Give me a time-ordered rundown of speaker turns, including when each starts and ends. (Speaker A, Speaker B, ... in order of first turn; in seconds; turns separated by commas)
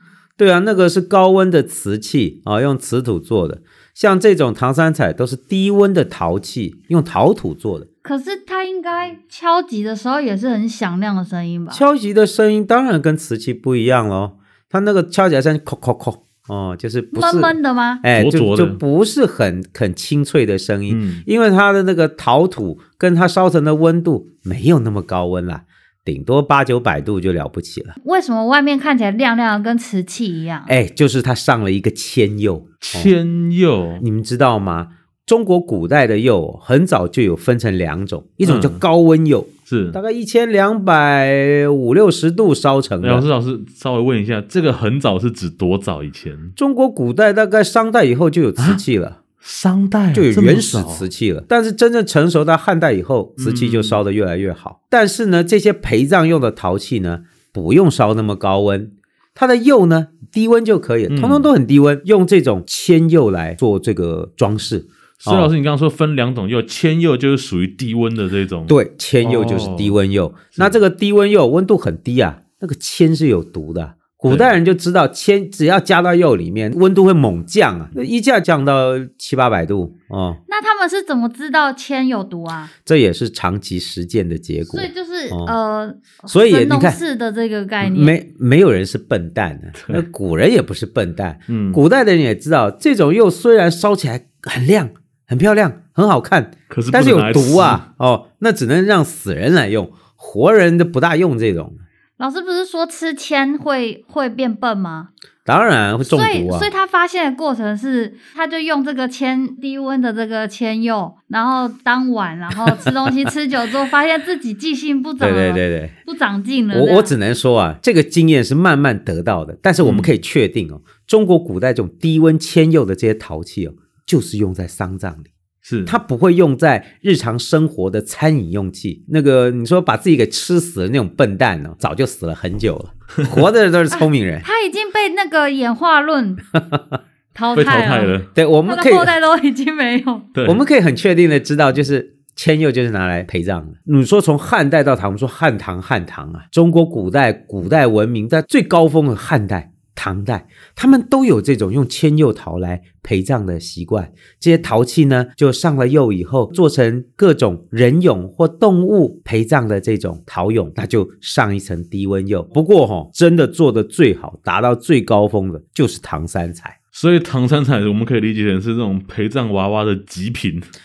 Speaker A: 0.4-7.9, Speaker B: 8.0-11.8, Speaker A: 11.7-27.9, Speaker B: 17.1-18.0, Speaker C: 18.1-18.8, Speaker C: 20.9-21.2, Speaker B: 28.0-30.7, Speaker A: 30.6-33.1, Speaker C: 32.8-34.0, Speaker A: 34.0-43.3, Speaker C: 38.4-38.8, Speaker C: 39.7-40.0, Speaker C: 43.0-46.5, Speaker A: 46.6-49.2, Speaker C: 49.4-51.1, Speaker A: 50.1-65.5, Speaker C: 53.4-54.0, Speaker C: 61.1-61.5, Speaker C: 65.2-70.0, Speaker A: 68.7-80.4, Speaker C: 74.3-74.5, Speaker B: 80.5-82.7, Speaker A: 82.8-85.5, Speaker B: 84.7-88.1, Speaker A: 86.3-87.0, Speaker A: 87.8-101.8, Speaker C: 89.8-90.0, Speaker C: 91.5-91.8, Speaker C: 96.7-97.8, Speaker B: 102.2-105.1, Speaker A: 105.5-106.7, Speaker B: 106.1-117.1, Speaker A: 115.2-116.0, Speaker A: 116.7-125.3, Speaker C: 119.8-120.1, Speaker C: 125.6-126.0, Speaker A: 125.8-134.4, Speaker B: 134.4-136.4, Speaker A: 136.6-136.9, Speaker B: 137.3-140.3, Speaker C: 137.5-138.3, Speaker A: 138.3-139.1, Speaker C: 140.3-140.6, Speaker A: 140.4-166.8, Speaker C: 166.9-170.7